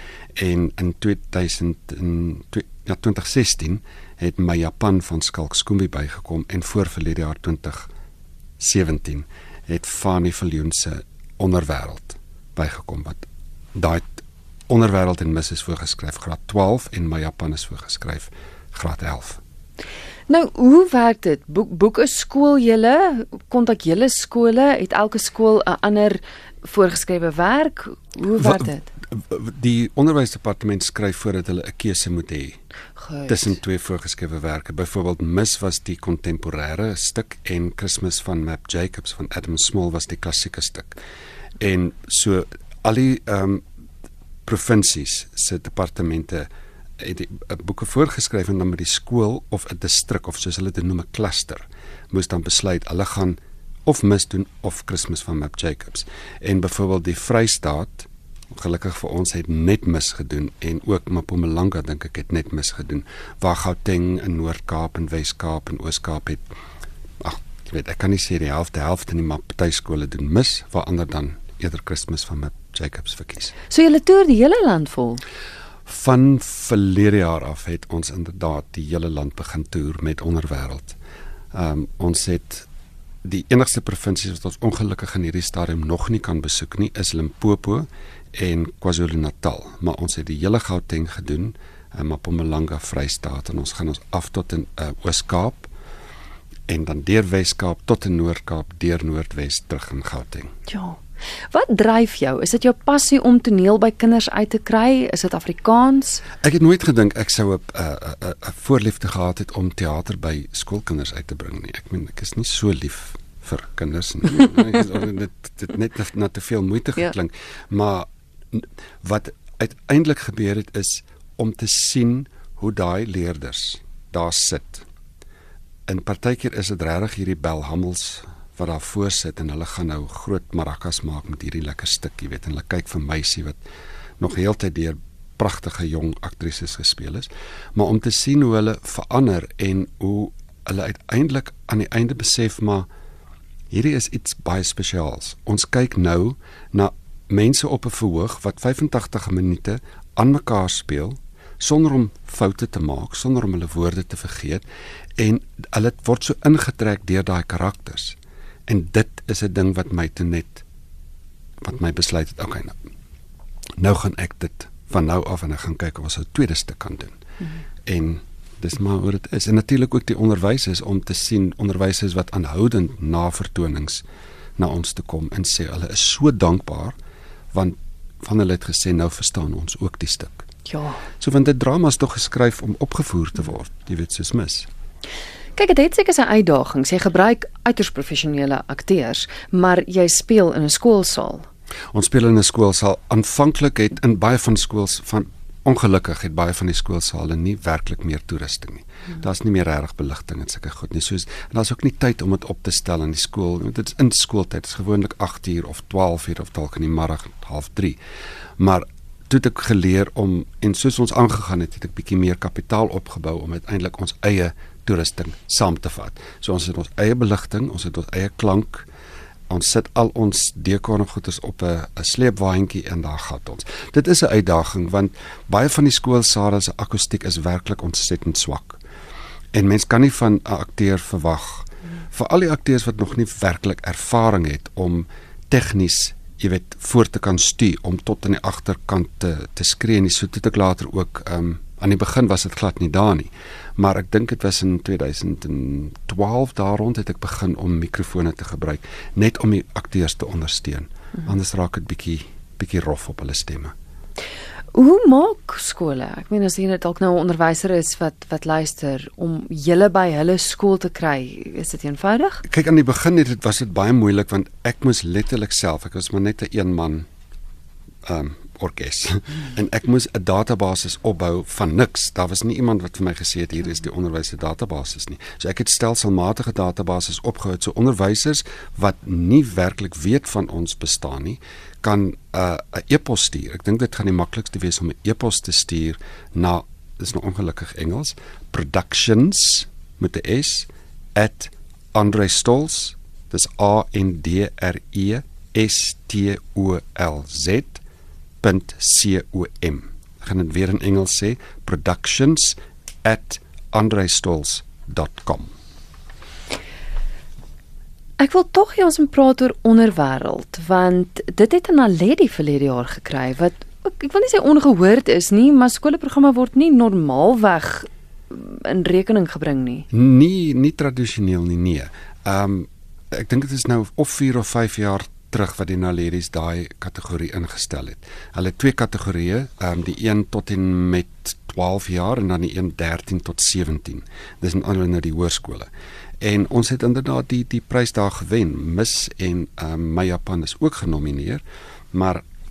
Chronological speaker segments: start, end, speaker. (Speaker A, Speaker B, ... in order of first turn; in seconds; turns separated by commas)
Speaker A: 0.3-7.9, Speaker A: 8.6-19.4, Speaker B: 20.3-28.9, Speaker A: 28.4-32.6, Speaker B: 33.0-33.5, Speaker A: 33.3-41.0, Speaker A: 41.6-43.6, Speaker A: 44.4-66.4, Speaker A: 67.2-73.5, Speaker B: 73.7-75.2, Speaker A: 75.8-81.0, Speaker A: 81.5-82.7, Speaker A: 83.2-95.7, Speaker A: 96.7-100.5, Speaker B: 100.7-101.0, Speaker B: 101.5-106.2, Speaker A: 106.4-124.8, Speaker A: 125.9-133.6, Speaker A: 134.2-142.9, Speaker A: 143.7-154.6, Speaker A: 155.2-160.6, Speaker A: 161.6-162.8, Speaker A: 163.8-167.1, Speaker A: 167.8-174.0, Speaker A: 174.6-177.0, Speaker A: 177.5-180.5, Speaker B: 180.7-181.0, Speaker A: 181.2-184.7, Speaker B: 185.6-191.4, Speaker A: 191.9-208.0, Speaker A: 208.6-218.9, Speaker A: 219.5-228.8, Speaker A: 229.5-253.7, Speaker B: 254.7-262.4, Speaker A: 262.4-267.1, Speaker A: 268.0-297.8, Speaker A: 298.4-305.5, Speaker B: 308.2-319.9, Speaker A: 319.9-335.7, Speaker A: 336.2-342.2